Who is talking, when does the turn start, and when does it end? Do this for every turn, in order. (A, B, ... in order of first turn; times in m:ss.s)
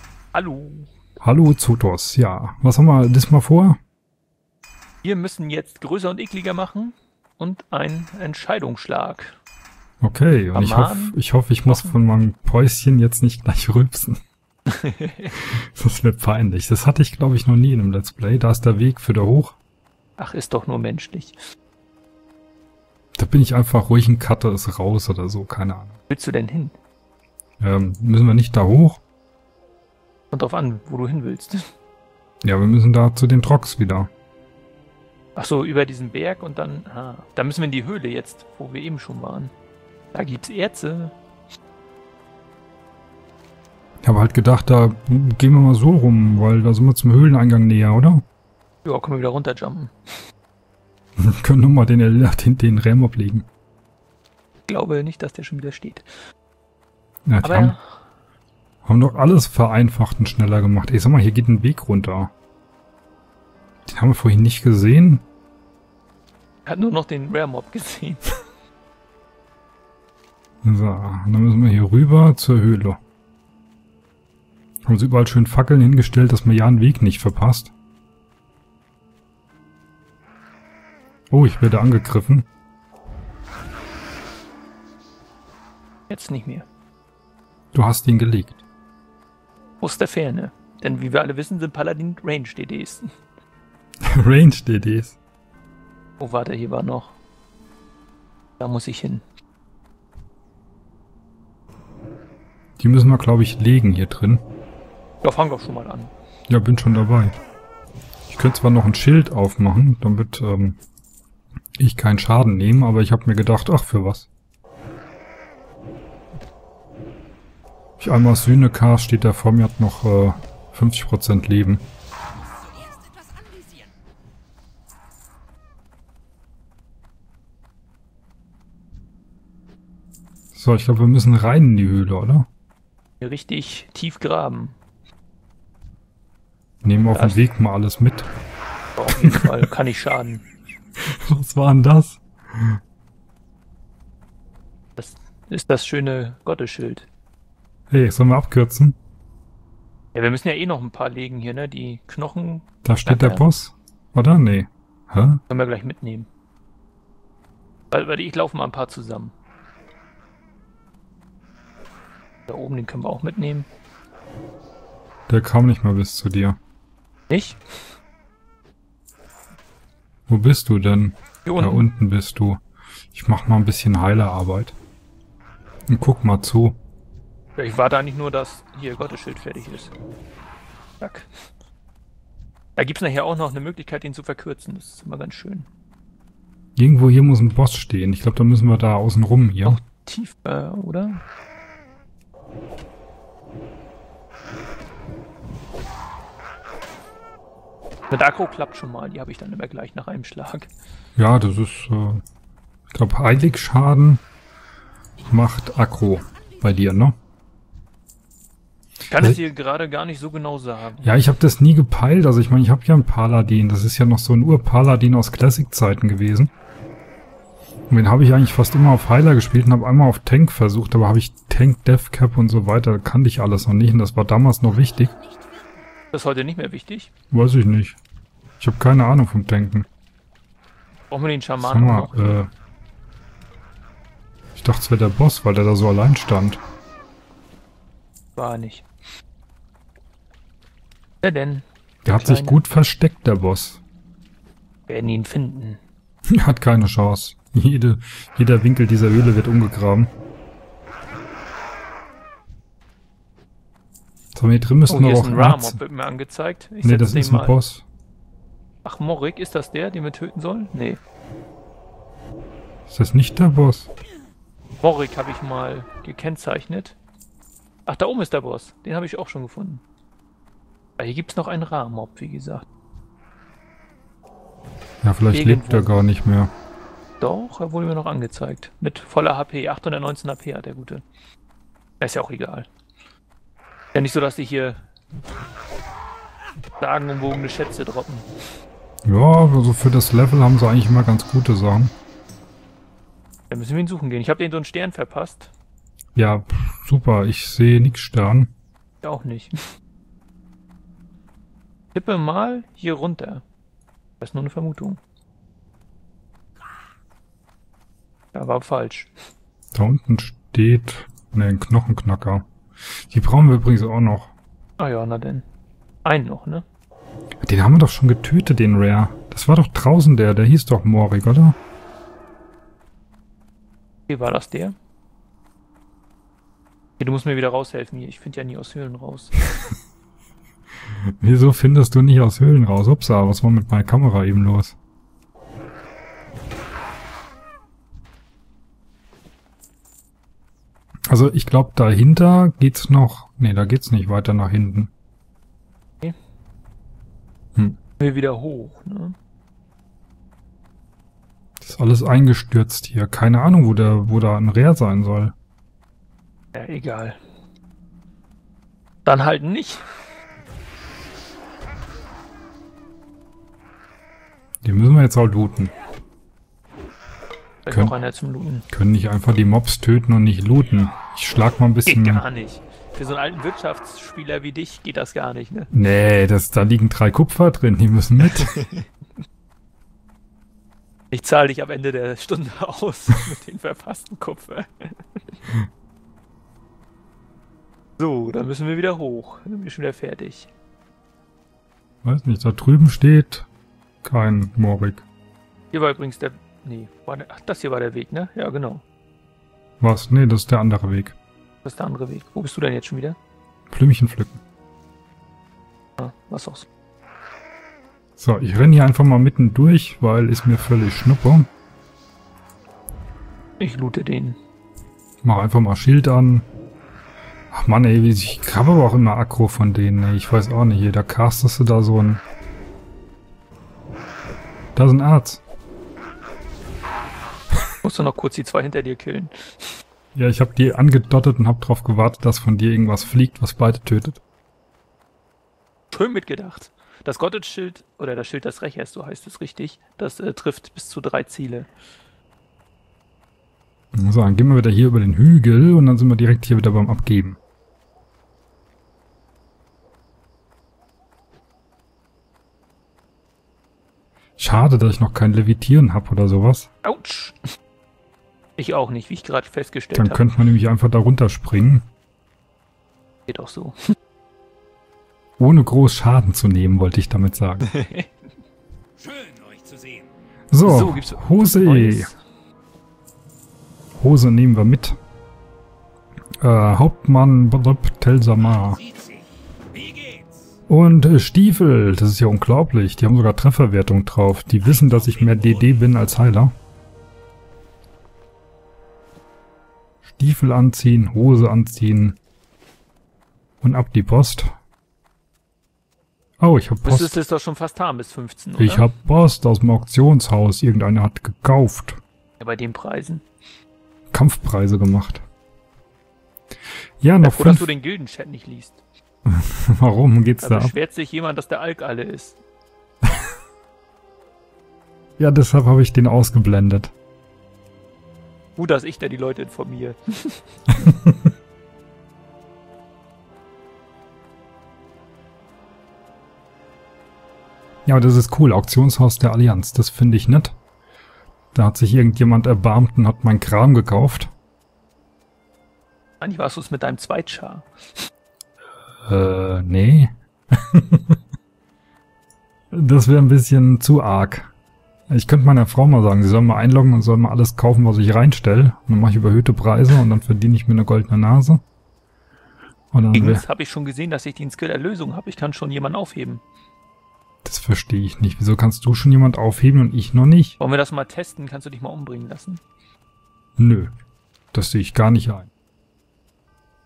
0:00.3-0:00.9 A
0:01.2-0:03.8 B
0:05.0-0:09.4 A
0:10.0-0:14.2 B
0:10.5-0:12.0 A
0:14.7-0:15.3 A
0:15.4-0:19.6 B
0:20.2-0:21.4 A
0:23.2-0:26.0 B
0:26.1-0:26.7 A
0:27.6-0:29.0 B
0:30.3-0:31.7 A
0:32.4-0:34.1 B
0:35.4-0:39.5 A
0:40.1-0:41.1 A
0:44.0-0:48.2 B
0:48.8-0:49.9 A
0:51.2-0:53.5 B
0:54.7-0:56.1 A
0:57.3-0:57.8 B
0:57.4-0:57.8 A
0:58.8-1:02.3 B
1:03.9-1:05.2 B
1:06.6-1:08.2 A
1:10.6-1:13.0 B
1:14.8-1:17.7 B
1:21.3-1:22.5 B
1:26.1-1:26.6 A
1:27.7-1:28.6 B
1:29.8-1:33.1 A
1:34.0-1:35.2 B
1:36.2-1:37.2 A
1:38.6-1:39.2 A
1:42.8-1:44.4 B
1:45.2-1:46.1 A
1:46.5-1:47.3 B
1:48.3-1:50.8 B
1:51.8-1:54.3 B
1:58.0-2:01.8 B
2:10.5-2:12.5 B
2:13.2-2:14.7 A
2:16.8-2:18.2 B
2:17.1-2:17.4 A
2:19.0-2:20.4 A
2:19.2-2:19.5 B
2:21.0-2:22.8 B
2:25.0-2:27.1 A
2:27.9-2:29.0 B
2:30.1-2:33.4 A
2:32.8-2:35.4 B
2:35.5-2:36.3 A
2:37.9-2:39.3 A
2:42.5-2:43.7 A
2:45.3-2:46.6 B
2:47.3-2:47.6 A
2:50.3-2:54.7 B
2:51.4-2:51.9 A
2:55.9-2:56.8 B
2:57.6-2:59.9 A
3:01.0-3:01.3 A
3:02.8-3:05.7 A
3:06.8-3:09.8 B
3:09.6-3:11.2 A
3:18.1-3:20.7 A
3:21.2-3:22.2 B
3:22.9-3:24.2 B
3:25.3-3:27.1 B
3:29.1-3:31.1 A
3:31.0-3:36.5 B
3:37.9-3:45.2 B
3:46.1-3:47.1 A
3:47.3-3:48.0 B
3:48.6-3:49.8 B
3:51.1-3:52.4 A
3:51.6-3:52.5 B
3:54.6-3:56.6 B
3:58.4-3:58.8 A
4:01.2-4:02.6 A
4:02.0-4:03.8 B
4:04.9-4:05.8 A
4:06.3-4:10.1 B
4:14.3-4:15.8 B
4:14.9-4:17.6 A
4:16.8-4:17.8 B
4:18.8-4:21.0 A
4:22.9-4:23.9 B
4:24.8-4:27.0 A
4:27.8-4:29.8 A
4:31.0-4:32.6 A
4:35.0-4:36.5 B
4:35.3-4:36.0 A
4:37.2-4:41.0 A
4:42.0-4:42.7 A
4:43.9-4:44.8 A
4:46.8-4:48.3 A
4:49.0-4:51.9 B
4:53.5-4:55.5 A
4:56.1-4:58.5 B
4:59.0-4:59.7 A
5:01.9-5:03.4 A
5:04.2-5:05.0 A
5:08.3-5:09.1 A
5:09.7-5:12.5 B
5:13.1-5:14.3 B
5:14.8-5:15.4 A
5:16.0-5:16.6 A
5:17.4-5:21.6 B
5:24.1-5:24.8 A
5:27.0-5:29.3 A
5:31.2-5:34.7 B
5:41.1-5:44.9 B
5:48.0-5:49.1 A
5:51.6-5:55.3 B
5:56.5-5:57.2 A
5:59.0-5:59.9 A
6:04.6-6:05.7 B
6:07.6-6:08.6 A
6:07.7-6:08.0 B
6:08.7-6:12.2 B
6:11.9-6:15.7 A
6:15.7-6:18.6 B
6:18.2-6:18.8 A
6:21.1-6:25.2 A
6:28.0-6:30.5 A
6:32.0-6:33.5 B
6:34.0-6:35.0 B
6:35.7-6:38.8 A
6:39.8-6:41.1 B
6:41.6-6:43.2 A
6:43.7-6:44.4 B
6:46.0-6:46.7 A
6:48.2-6:51.5 B
6:53.6-6:54.4 A
6:55.2-6:56.5 B
6:57.5-7:02.2 B
7:04.8-7:05.4 B
7:07.8-7:09.8 A
7:10.1-7:14.2 B
7:15.9-7:21.7 A
7:23.9-7:27.4 B
7:34.4-7:36.7 B
7:36.8-7:37.4 A
7:38.6-7:40.3 A
7:39.9-7:41.8 B
7:43.3-7:43.8 A
7:45.4-7:47.7 B
7:47.6-7:48.1 A
7:50.5-7:52.1 B
7:50.6-7:52.1 A
7:54.0-7:55.0 B
7:56.4-7:58.8 B
8:00.7-8:06.5 B
8:10.0-8:12.2 B
8:13.6-8:14.5 B
8:16.4-8:17.2 B
8:16.8-8:18.9 A
8:18.6-8:22.0 B
8:22.4-8:23.2 A
8:24.1-8:25.2 B
8:27.0-8:27.7 B
8:27.2-8:28.8 A
8:29.2-8:30.7 B
8:30.4-8:32.4 A
8:35.2-8:36.9 B
8:38.6-8:40.4 A
8:40.8-8:41.2 B
8:47.8-8:50.6 B
8:51.5-8:54.3 B
8:56.2-8:57.7 A
8:59.0-9:00.1 B
9:00.7-9:01.2 B
9:02.7-9:04.5 B
9:05.1-9:11.6 B
9:12.9-9:13.4 B
9:13.1-9:16.4 A
9:17.4-9:20.6 B
9:20.6-9:22.6 A
9:23.6-9:23.9 B
9:24.5-9:25.5 B